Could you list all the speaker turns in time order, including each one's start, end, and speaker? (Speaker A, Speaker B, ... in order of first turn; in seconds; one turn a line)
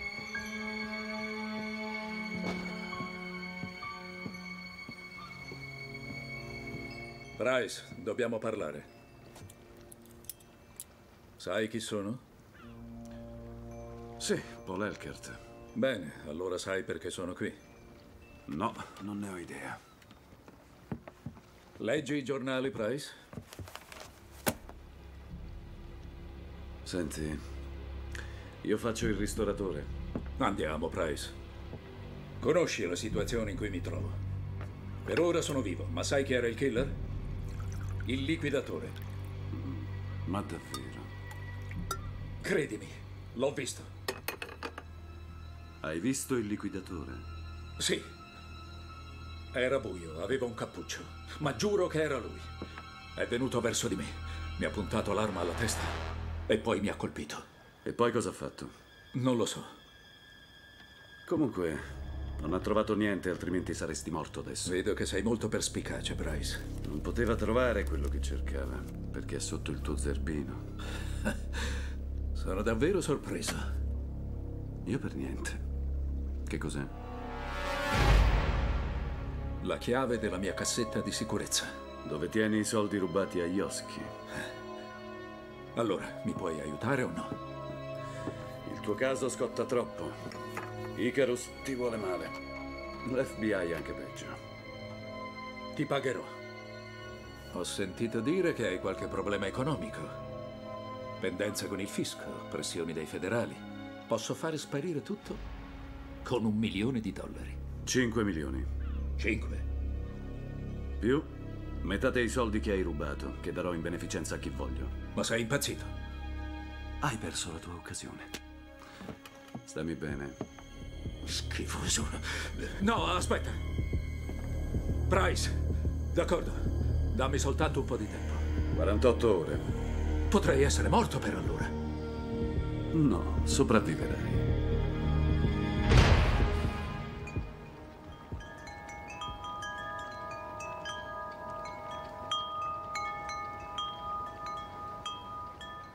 Speaker A: 7.4-8.9
Speaker A: 11.4-12.2
Speaker B: 14.2-15.4
Speaker A: 15.8-17.6
Speaker B: 18.5-19.8
Speaker A: 21.8-23.1
Speaker B: 26.9-27.4
Speaker B: 28.6-29.9
Speaker A: 30.4-31.3
Speaker A: 32.4-34.2
Speaker A: 35.1-37.0
Speaker A: 38.0-39.0
Speaker B: 39.5-41.1
Speaker A: 42.4-43.9
Speaker B: 45.8-47.2
Speaker A: 47.8-48.1
Speaker A: 49.5-52.5
Speaker A: 53.2-56.0
Speaker A: 56.5-57.5
Speaker B: 57.9-58.7
Speaker A: 59.1-59.7
Speaker B: 61.3-61.8
Speaker B: 62.4-64.8
Speaker A: 64.7-66.7
Speaker B: 66.8-70.7
Speaker A: 72.3-73.7
Speaker B: 74.8-75.6
Speaker B: 76.5-76.9
Speaker A: 79.6-81.7
Speaker B: 82.0-84.1
Speaker A: 85.8-87.4
Speaker B: 88.7-90.2
Speaker B: 90.9-92.4
Speaker B: 93.0-94.4
Speaker A: 95.8-96.3
Speaker A: 97.5-100.2
Speaker A: 101.2-105.4
Speaker A: 106.2-107.6
Speaker B: 107.8-108.7
Speaker A: 109.2-109.6
Speaker B: 111.0-115.0
Speaker A: 115.1-115.9
Speaker B: 117.0-118.3
Speaker B: 119.7-120.4
Speaker B: 121.3-122.2
Speaker A: 122.7-123.6
Speaker A: 125.1-125.5
Speaker A: 126.1-128.4
Speaker B: 128.7-129.7
Speaker A: 130.3-131.7
Speaker B: 132.9-134.5